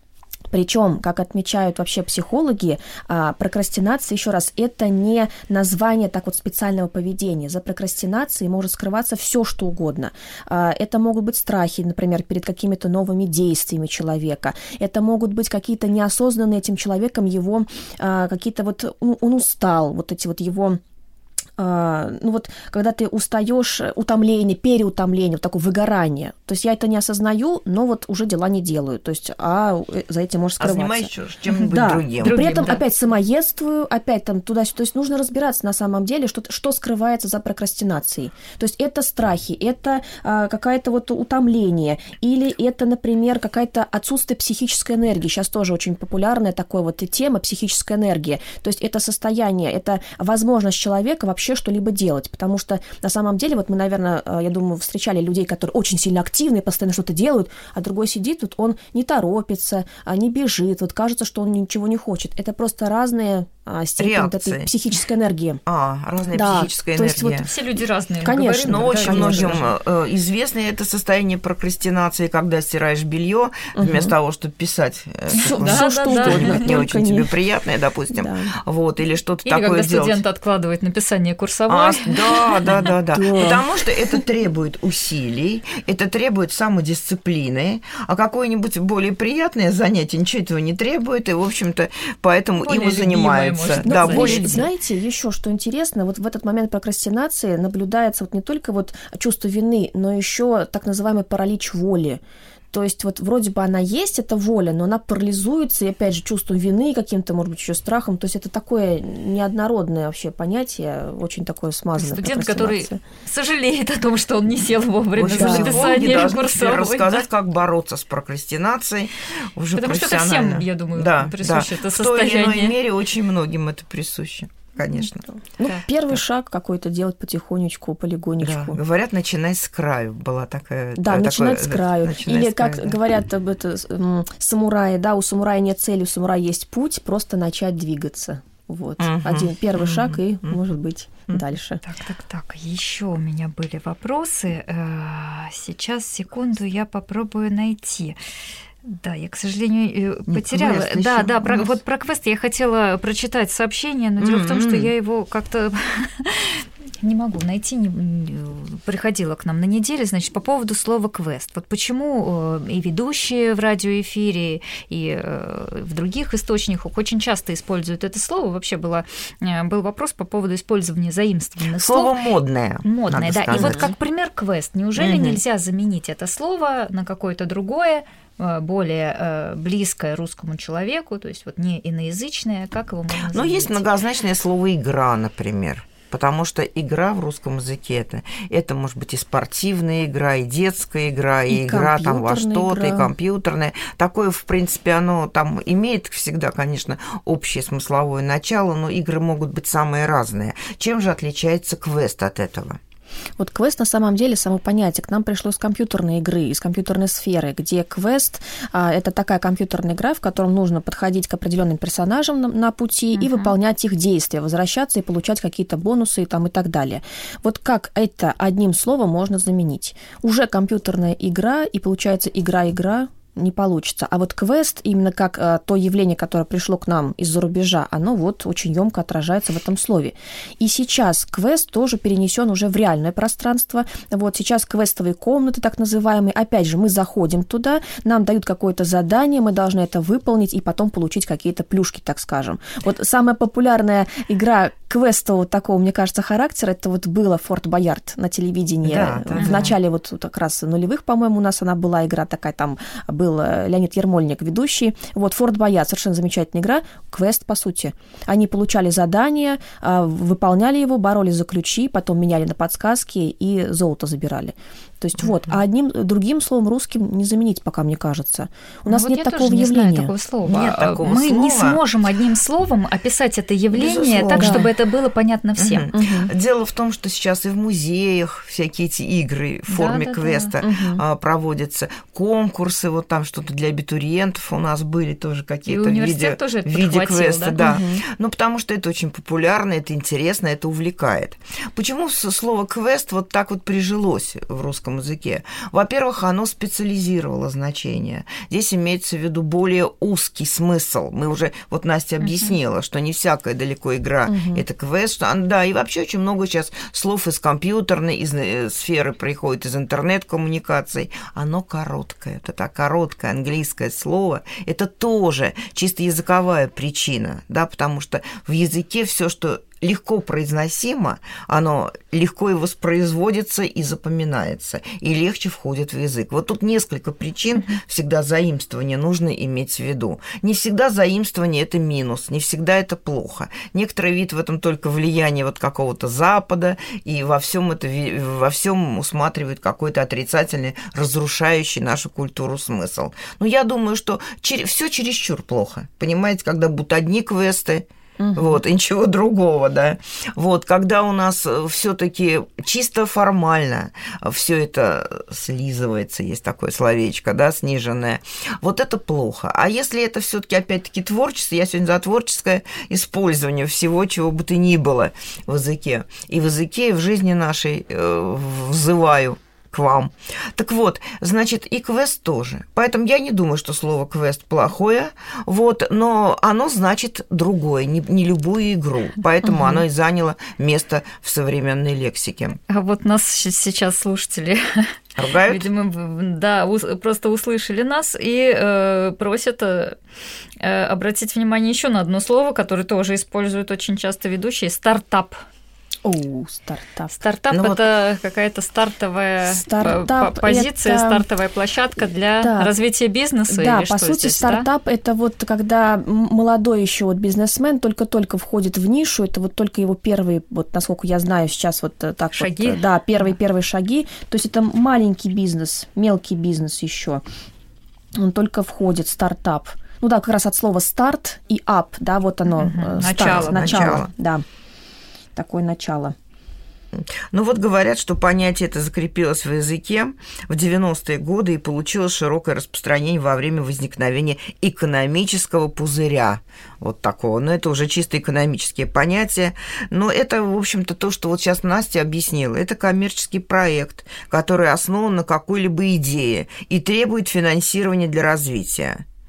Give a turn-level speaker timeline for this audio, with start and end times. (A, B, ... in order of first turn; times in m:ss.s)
0:00.5-0:20.8 A
0:21.6-1:05.6 A
0:30.6-0:32.4 B
0:32.2-0:32.8 C
1:04.0-1:04.7 B
1:05.7-1:07.5 B
1:06.3-1:07.5 A
1:07.4-1:09.7 C
1:08.2-1:09.7 A
1:08.7-1:20.2 B
1:13.8-1:14.2 A
1:15.4-1:16.8 C
1:15.4-1:17.4 A
1:18.1-1:18.5 A
1:19.4-1:22.9 C
1:21.7-1:34.7 B
1:23.1-1:23.6 A
1:32.6-1:34.7 C
1:33.8-1:42.2 A
1:42.7-1:53.0 A
1:52.0-1:57.2 C
1:55.2-2:05.2 B
1:55.4-1:56.0 A
1:59.8-2:02.8 C
2:05.6-2:08.8 A
2:08.4-2:13.0 B
2:11.0-2:21.8 A
2:19.0-2:20.6 B
2:21.8-2:28.2 C
2:28.8-2:52.2 C
2:30.3-2:31.8 B
2:34.2-2:34.9 B
2:51.6-2:53.9 B
2:52.8-3:03.8 C
2:53.5-2:53.8 A
2:55.0-2:55.4 B
3:03.3-3:22.8 B
3:11.5-3:13.1 A
3:23.4-4:30.1 A
3:33.2-3:33.5 C
4:08.8-4:09.8 B
4:09.4-4:09.7 C
4:25.2-4:25.5 C
4:28.9-4:35.9 C
4:30.4-4:31.8 B
4:33.7-4:34.7 B
4:34.4-4:34.7 A
4:35.6-6:22.6 B
4:35.9-4:36.3 A
4:39.7-4:40.5 C
4:40.6-4:41.0 A
4:45.7-4:47.7 C
4:47.6-4:48.0 A
5:04.3-5:04.6 A
5:48.2-5:48.6 A
6:19.4-6:19.8 C
6:22.7-6:24.9 C
6:25.2-6:25.6 B
6:25.4-6:30.0 C
6:30.6-6:35.4 C
6:36.0-6:37.2 A
6:37.1-6:44.7 C
6:37.5-6:37.8 B
6:39.5-6:41.2 A
6:42.4-6:42.7 A
6:43.5-6:57.2 A
6:52.4-6:53.3 C
6:58.2-7:04.4 A
7:02.5-7:04.1 C
7:03.0-7:04.1 B
7:05.4-7:06.2 A
7:06.9-7:29.0 B